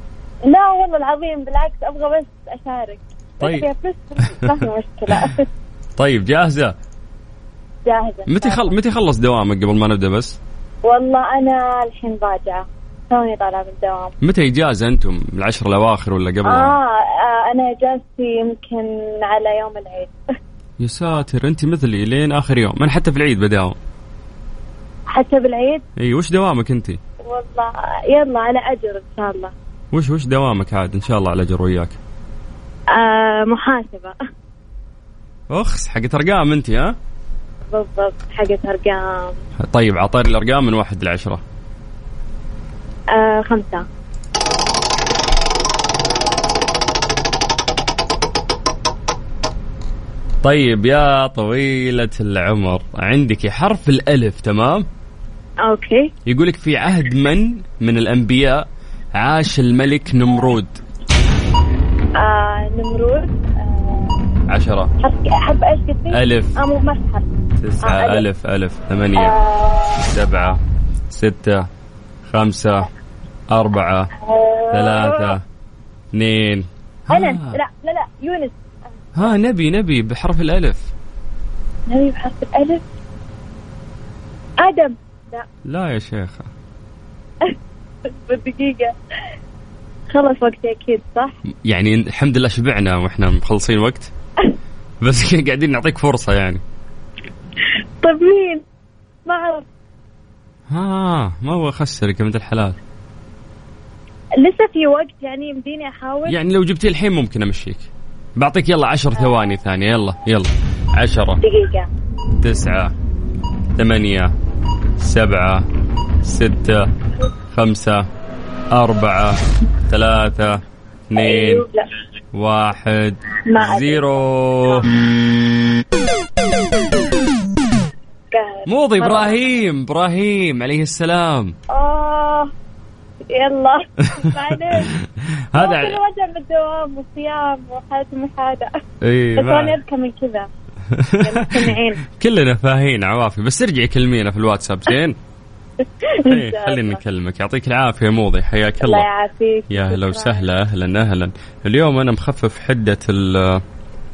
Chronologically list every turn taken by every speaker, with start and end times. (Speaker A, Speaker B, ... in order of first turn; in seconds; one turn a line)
Speaker A: 0.5-5.5
Speaker B: 3.4-3.7
Speaker B: 6.0-6.8
Speaker A: 7.9-8.7
Speaker B: 8.3-10.4
Speaker A: 10.8-14.1
Speaker B: 14.2-16.8
Speaker A: 16.5-20.1
Speaker B: 20.8-23.8
Speaker A: 25.1-25.8
Speaker B: 26.0-27.0
Speaker A: 27.2-29.5
Speaker B: 29.9-32.0
Speaker A: 33.0-34.2
Speaker B: 35.5-37.0
Speaker A: 37.7-39.4
Speaker B: 39.6-41.4
Speaker A: 43.1-43.9
Speaker B: 50.4-54.9
Speaker A: 55.7-56.1
Speaker B: 56.3-60.8
Speaker A: 62.2-64.2
Speaker B: 64.5-64.9
Speaker A: 65.0-67.3
Speaker B: 66.1-66.5
Speaker B: 67.6-69.3
Speaker A: 67.8-68.2
Speaker A: 69.2-70.1
Speaker B: 70.0-70.6
Speaker B: 71.1-71.7
Speaker B: 72.3-72.9
Speaker B: 73.5-74.1
Speaker A: 74.2-75.3
Speaker B: 74.7-75.4
Speaker B: 76.1-77.6
Speaker A: 77.1-78.6
Speaker B: 79.2-80.9
Speaker A: 81.9-82.8
Speaker A: 84.6-85.5
Speaker B: 85.7-86.5
Speaker A: 87.4-89.0
Speaker A: 90.1-91.3
Speaker B: 91.7-94.1
Speaker B: 95.0-96.6
Speaker A: 98.0-98.7
Speaker A: 99.3-99.6
Speaker B: 100.7-102.8
Speaker A: 104.4-106.4
Speaker B: 106.3-111.4
Speaker A: 111.4-111.9
Speaker B: 112.4-112.9
Speaker B: 113.8-114.3
Speaker B: 115.0-115.7
Speaker B: 116.2-116.9
Speaker B: 117.5-118.0
Speaker B: 118.7-121.7
Speaker A: 121.2-121.9
Speaker B: 122.3-124.9
Speaker A: 123.4-124.8
Speaker A: 128.3-129.4
Speaker B: 128.7-131.6
Speaker A: 131.7-132.5
Speaker A: 133.3-134.9
Speaker B: 134.1-134.9
Speaker B: 135.5-136.0
Speaker A: 135.6-138.7
Speaker B: 139.0-139.8
Speaker A: 139.4-140.5
Speaker B: 140.9-145.2
Speaker A: 141.2-142.0
Speaker A: 145.8-147.0
Speaker B: 146.3-149.1
Speaker A: 148.8-150.5
Speaker B: 149.7-153.6